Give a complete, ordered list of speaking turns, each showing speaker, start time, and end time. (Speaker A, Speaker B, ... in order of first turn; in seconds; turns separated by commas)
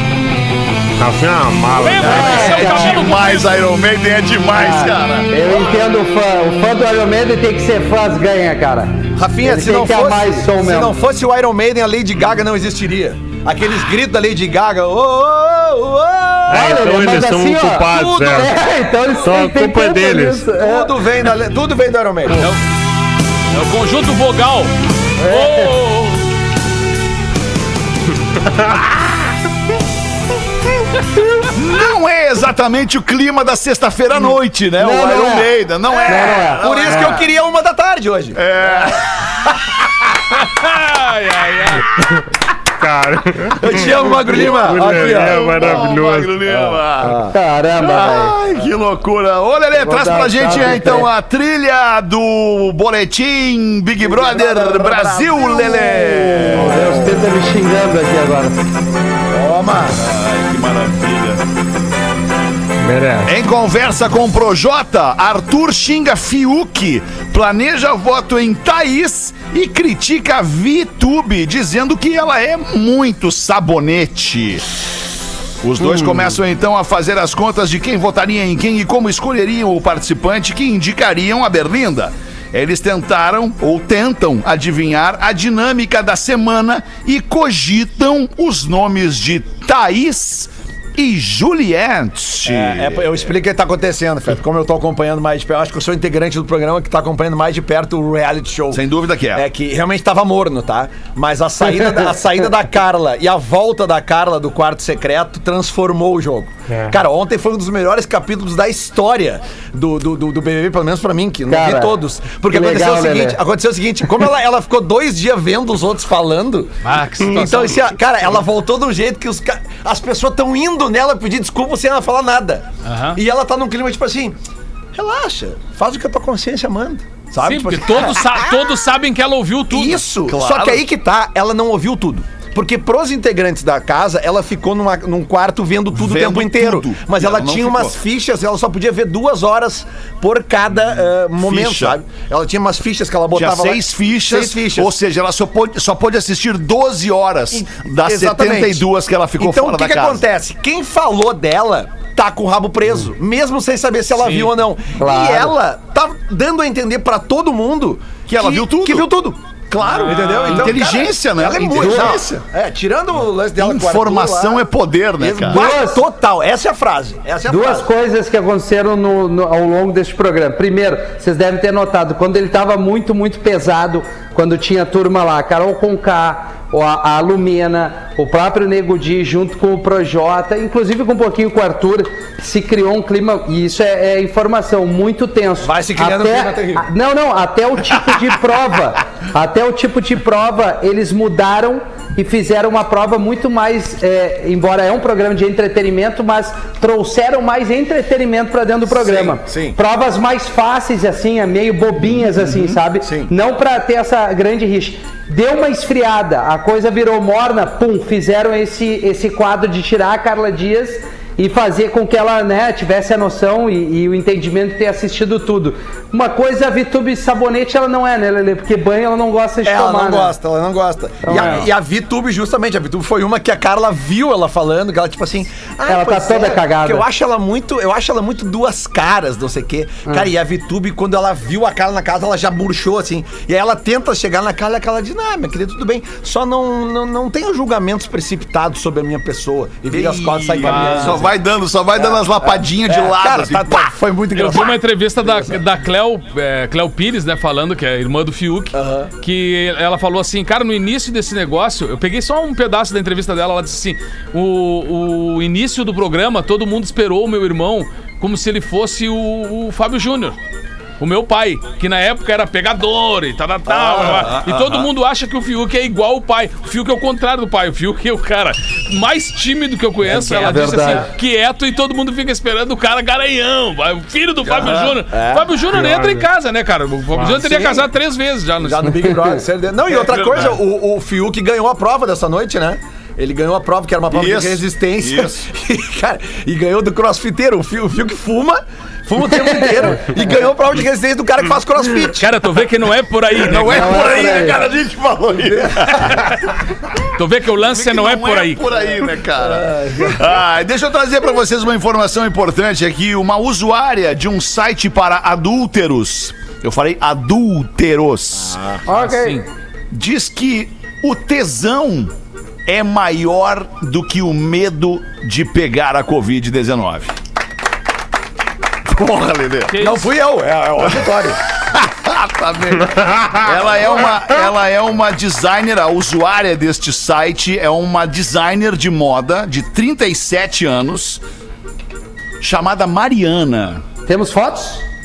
Speaker A: 1.0-2.7, Speaker B: 1.8-3.5, Speaker C: 2.0-3.0, Speaker D: 2.2-5.3, Speaker C: 4.5-11.0, Speaker E: 9.2-16.9, Speaker A: 16.5-18.5, Speaker C: 16.5-20.9, Speaker E: 17.9-18.4, Speaker A: 19.2-20.5, Speaker E: 20.5-22.5, Speaker B: 23.5-26.2, Speaker C: 25.2-25.7, Speaker D: 31.5-37.3, Speaker C: 34.8-35.5, Speaker C: 36.1-37.2, Speaker E: 36.6-38.4, Speaker D: 38.3-39.3, Speaker B: 40.4-41.9, Speaker A: 42.8-46.5, Speaker E: 43.6-45.9, Speaker D: 44.8-47.2, Speaker E: 46.5-47.3, Speaker C: 47.3-48.4, Speaker D: 47.8-56.9, Speaker C: 49.8-51.1, Speaker E: 54.0-57.3, Speaker C: 56.5-58.6, Speaker E: 59.3-60.0, Speaker D: 59.9-61.4, Speaker A: 62.8-63.3, Speaker D: 63.2-74.6, Speaker D: 75.6-93.3, Speaker E: 92.5-124.4, Speaker D: 98.7-99.5, Speaker A: 106.7-107.0, Speaker C: 111.5-113.4, Speaker B: 116.8-117.9, Speaker A: 117.3-117.5, Speaker B: 122.8-123.2, Speaker E: 125.0-128.5, Speaker B: 127.4-130.0, Speaker E: 129.7-144.9, Speaker D: 130.3-130.8, Speaker D: 135.9-138.0, Speaker D: 141.4-142.0, Speaker D: 143.3-150.2, Speaker E: 148.1-148.8, Speaker E: 149.4-164.6, Speaker B: 154.2-154.6, Speaker C: 155.0-155.6, Speaker D: 158.3-159.1, Speaker D: 159.7-162.4, Speaker B: 159.8-160.8, Speaker C: 161.8-162.2, Speaker D: 163.6-165.7, Speaker E: 165.2-167.9, Speaker C: 165.5-166.0, Speaker C: 167.5-220.3, Speaker E: 185.6-186.8, Speaker E: 198.9-199.8, Speaker E: 202.3-203.3, Speaker E: 219.6-241.3, Speaker C: 221.2-221.7, Speaker B: 221.3-221.6, Speaker C: 225.9-227.0, Speaker D: 239.9-243.9, Speaker B: 240.6-241.3, Speaker E: 242.0-245.6, Speaker B: 244.3-260.4, Speaker E: 248.7-249.1, Speaker B: 261.0-279.0, Speaker E: 263.7-264.4, Speaker D: 264.1-264.9, Speaker C: 270.1-271.1, Speaker E: 274.5-275.6, Speaker D: 274.6-274.9, Speaker A: 275.7-276.2, Speaker E: 277.3-277.9, Speaker E: 278.6-292.3, Speaker C: 279.0-279.4, Speaker D: 279.9-280.6, Speaker D: 284.1-285.5, Speaker C: 289.5-289.9, Speaker B: 292.2-294.2, Speaker D: 293.5-296.4, Speaker C: 293.7-294.6, Speaker B: 297.2-298.6, Speaker D: 297.5-308.6, Speaker E: 299.4-300.2, Speaker E: 308.4-308.8, Speaker C: 308.9-309.4, Speaker B: 308.9-309.5, Speaker D: 309.9-312.1, Speaker D: 312.7-317.1, Speaker D: 318.9-319.8, Speaker B: 319.7-320.1, Speaker E: 319.8-321.4, Speaker D: 321.7-331.2, Speaker D: 332.4-333.8, Speaker C: 334.1-334.8